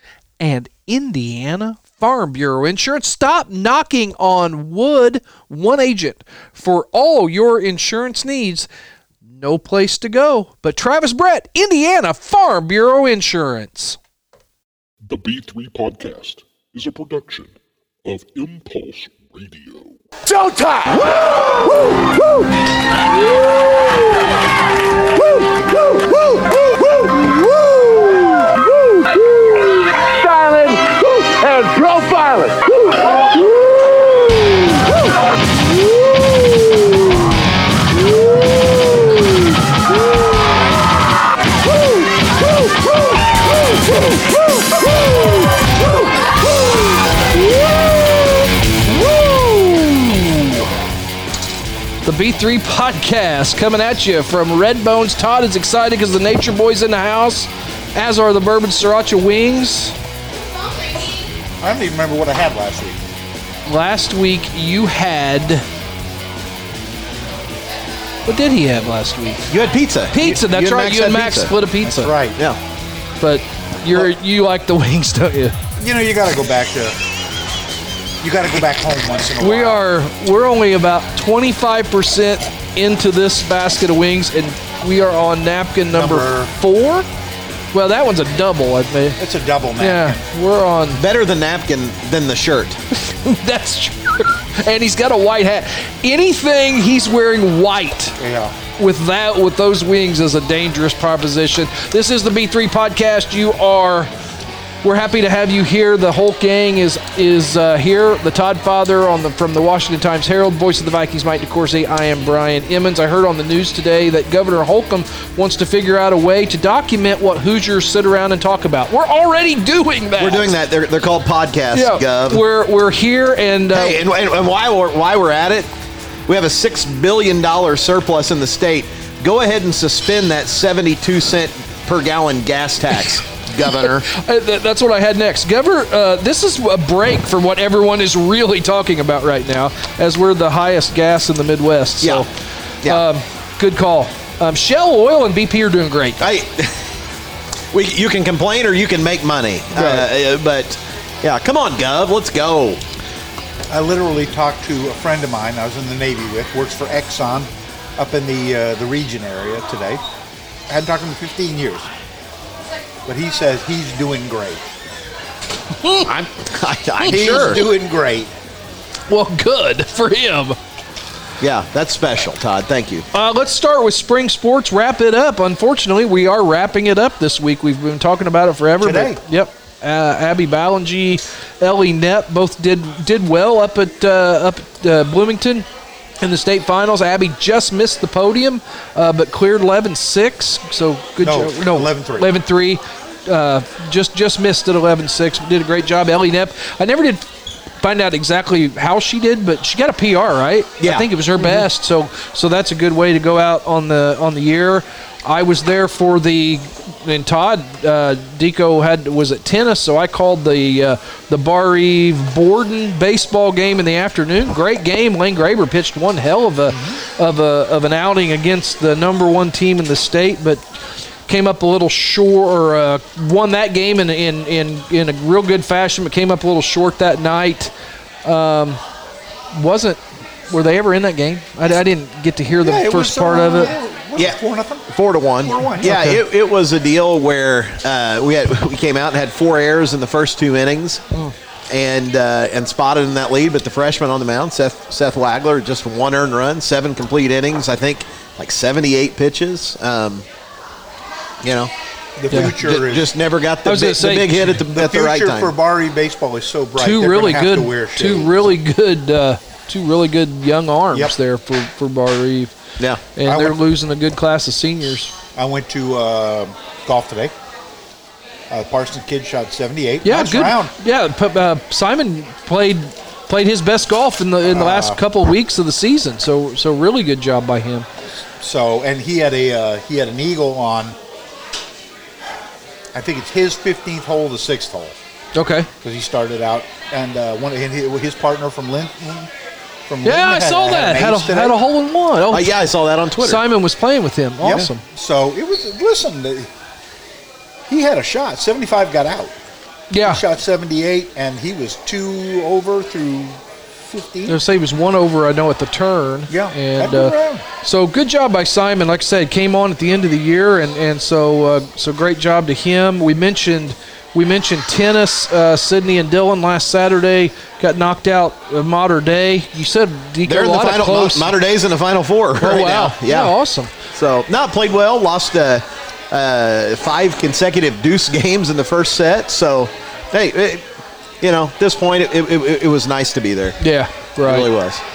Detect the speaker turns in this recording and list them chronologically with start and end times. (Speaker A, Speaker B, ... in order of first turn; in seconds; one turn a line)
Speaker A: 0.4-8.7
Speaker A: 9.2-14.0
Speaker B: 15.1-17.5
Speaker B: 18.1-19.9
Speaker C: 20.3-24.3
Speaker C: 24.9-37.2
Speaker C: 38.0-40.2
Speaker C: 41.6-46.4
Speaker A: 48.9-50.5
Speaker A: 52.0-60.0
Speaker D: 61.6-63.1
Speaker A: 63.7-65.7
Speaker A: 68.3-69.4
Speaker E: 69.5-71.5
Speaker A: 70.1-72.2
Speaker D: 71.8-72.4
Speaker A: 73.2-75.6
Speaker D: 75.8-77.0
Speaker D: 78.2-79.8
Speaker A: 79.4-87.1
Speaker D: 85.9-86.5
Speaker A: 87.7-89.2
Speaker D: 89.2-90.2
Speaker A: 89.8-91.0
Speaker E: 90.9-92.8
Speaker A: 93.0-98.2
Speaker D: 98.2-98.6
Speaker A: 98.8-104.1
Speaker A: 104.8-120.5
Speaker E: 120.2-122.4
Speaker A: 121.7-124.0
Speaker E: 123.7-125.7
Speaker E: 126.3-134.1
Speaker A: 133.7-142.3
Speaker A: 142.8-146.3
Speaker E: 146.2-146.9
Speaker E: 147.7-152.8
Speaker D: 149.7-150.1
Speaker D: 153.7-160.0
Speaker D: 160.7-161.9
Speaker D: 163.1-164.7
Speaker A: 165.8-166.1
Speaker E: 166.1-167.7
Speaker A: 167.0-167.6
Speaker D: 167.0-168.3
Speaker A: 169.1-170.6
Speaker E: 171.4-173.1
Speaker A: 173.1-185.7
Speaker D: 178.8-179.2
Speaker A: 186.2-197.3
Speaker D: 191.2-192.4
Speaker A: 197.8-220.6
Speaker E: 200.8-201.1
Speaker D: 216.7-217.0
Speaker A: 221.3-227.7
Speaker A: 228.2-228.8
Speaker A: 229.5-233.8
Speaker D: 232.6-234.9
Speaker E: 234.9-241.0
Speaker D: 235.4-236.2
Speaker E: 241.7-250.3
Speaker E: 251.4-251.7
Speaker D: 252.2-253.2
Speaker E: 252.3-255.5
Speaker A: 253.6-254.4
Speaker D: 254.4-258.5
Speaker A: 256.8-262.5
Speaker E: 262.8-263.0
Speaker A: 263.1-265.1
Speaker D: 263.2-263.6
Speaker D: 265.4-267.3
Speaker D: 268.5-270.7
Speaker A: 270.0-277.9
Speaker D: 274.5-275.0
Speaker D: 278.4-281.0
Speaker D: 282.9-285.0
Speaker A: 285.4-285.7
Speaker D: 285.8-289.3
Speaker D: 289.9-291.6
Speaker A: 290.0-292.6
Speaker E: 292.3-293.4
Speaker A: 293.2-294.8
Speaker D: 294.4-296.5
Speaker D: 297.7-299.4
Speaker A: 299.9-300.2
Speaker D: 300.0-304.4
Speaker A: 304.3-321.3
Speaker D: 306.3-307.4
Speaker E: 320.2-323.4
Speaker A: 322.4-323.7
Speaker E: 323.9-330.6
Speaker E: 331.2-333.6
Speaker A: 333.6-334.5
Speaker E: 334.2-334.8